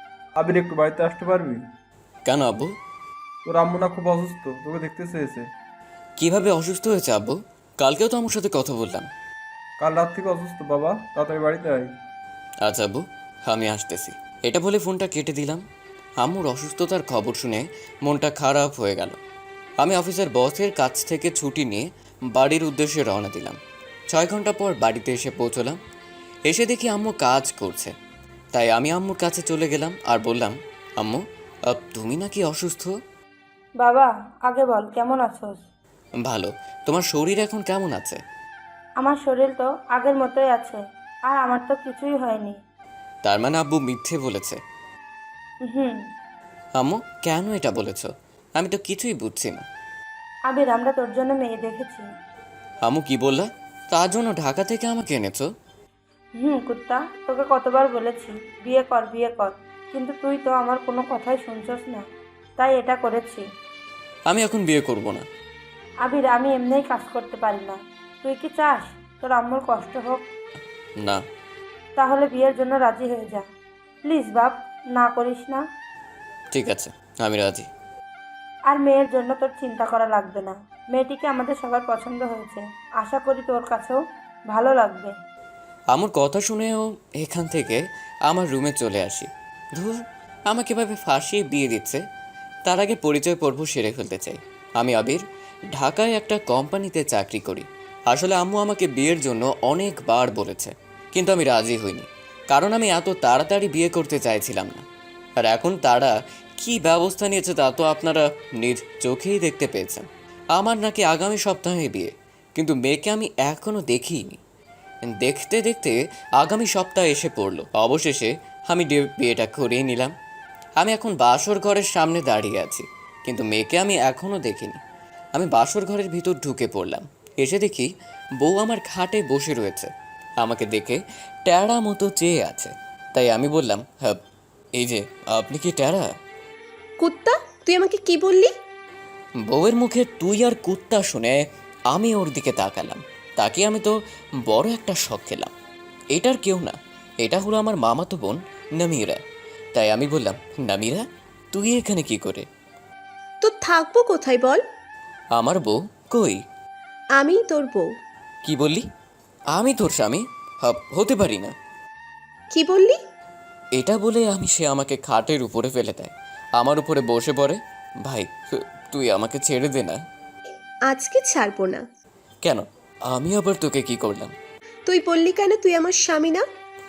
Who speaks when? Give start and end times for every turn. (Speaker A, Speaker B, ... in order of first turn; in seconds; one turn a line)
Speaker A: 0.4-1.6
Speaker B: 2.2-2.7
Speaker A: 3.5-5.5
Speaker B: 6.2-9.1
Speaker A: 9.8-11.9
Speaker B: 12.6-15.6
Speaker B: 16.2-19.2
Speaker B: 19.8-23.6
Speaker B: 24.1-25.8
Speaker B: 26.5-27.9
Speaker B: 28.5-32.9
Speaker C: 33.8-35.6
Speaker B: 36.2-38.2
Speaker C: 39.0-42.6
Speaker B: 43.2-44.6
Speaker C: 45.6-46.0
Speaker B: 46.8-49.6
Speaker C: 50.5-52.0
Speaker B: 52.8-55.5
Speaker C: 56.4-62.0
Speaker C: 62.6-63.4
Speaker B: 64.3-65.3
Speaker C: 66.0-70.2
Speaker C: 72.0-73.4
Speaker C: 74.0-75.6
Speaker B: 76.5-77.7
Speaker C: 78.7-85.1
Speaker B: 85.9-92.0
Speaker B: 92.7-104.8
Speaker B: 105.4-114.4
Speaker B: 115.0-120.1
Speaker B: 120.8-124.8
Speaker B: 125.3-134.2
Speaker B: 134.8-136.1
Speaker D: 137.0-138.5
Speaker B: 139.4-145.5
Speaker B: 146.1-149.2
Speaker B: 149.7-152.5
Speaker D: 153.4-154.6
Speaker B: 155.3-156.4
Speaker D: 157.2-157.9
Speaker B: 158.4-158.8
Speaker B: 159.5-161.5
Speaker D: 162.5-163.0
Speaker B: 163.8-170.0
Speaker D: 170.9-171.8
Speaker B: 172.4-174.3
Speaker D: 174.9-176.4